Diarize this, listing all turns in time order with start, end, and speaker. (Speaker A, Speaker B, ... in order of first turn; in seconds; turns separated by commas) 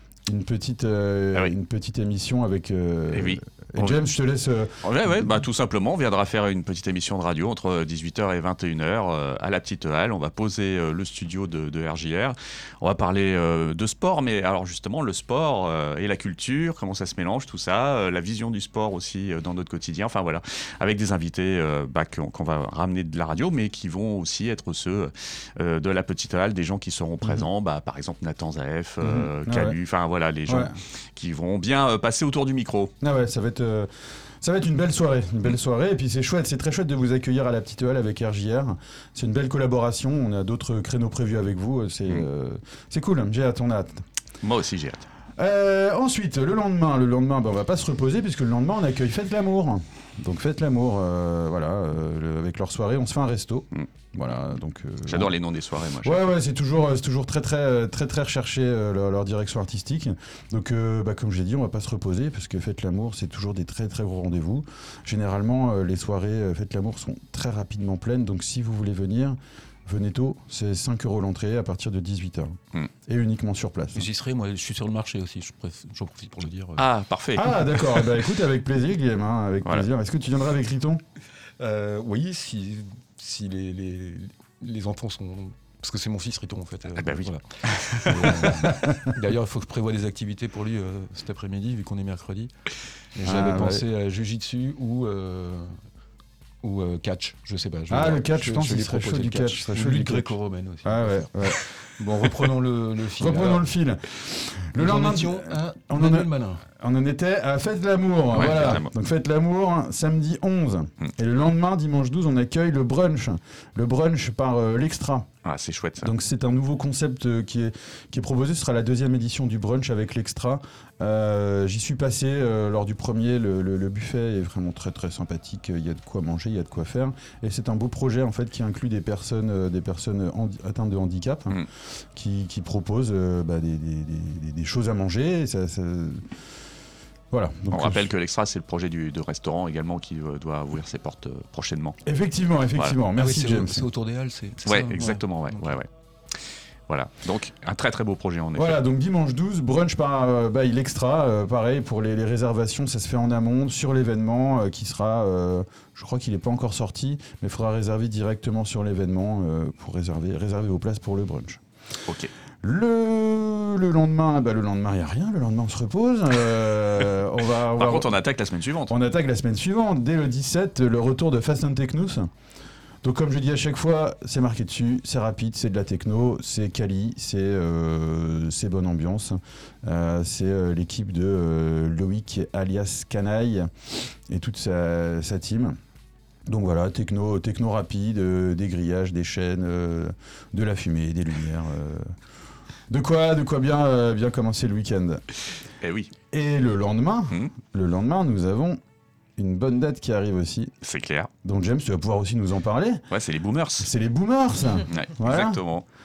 Speaker A: 0.3-4.8, Speaker B: 3.1-4.0, Speaker B: 4.8-32.9, Speaker A: 29.0-29.8, Speaker A: 30.5-30.8, Speaker A: 33.0-33.9, Speaker A: 34.4-44.0, Speaker B: 44.4-45.1, Speaker A: 45.4-55.4, Speaker B: 55.1-56.2, Speaker A: 56.0-74.1, Speaker C: 74.0-76.8, Speaker B: 76.8-78.1, Speaker A: 77.4-81.0, Speaker C: 81.6-95.7, Speaker B: 87.0-88.5, Speaker A: 88.6-89.0, Speaker A: 93.2-93.8, Speaker C: 96.6-103.7, Speaker A: 97.9-101.6, Speaker A: 103.2-115.3, Speaker C: 104.8-106.7, Speaker B: 108.3-108.9, Speaker C: 108.4-108.8, Speaker B: 115.5-116.1, Speaker A: 116.0-136.2, Speaker A: 137.3-138.1, Speaker B: 137.7-142.0, Speaker A: 142.1-143.8, Speaker C: 143.2-145.8, Speaker B: 144.7-145.9, Speaker B: 146.9-148.8, Speaker A: 148.6-161.6, Speaker A: 162.6-168.1, Speaker B: 167.8-168.9, Speaker A: 168.9-172.3, Speaker A: 173.0-183.7, Speaker A: 184.3-185.8, Speaker A: 186.5-192.1, Speaker A: 192.9-195.2, Speaker B: 195.8-196.1, Speaker A: 196.3-198.8, Speaker A: 199.4-200.7, Speaker B: 200.8-201.3, Speaker A: 201.4-203.1, Speaker B: 203.1-203.9, Speaker A: 203.8-205.6, Speaker B: 204.9-205.8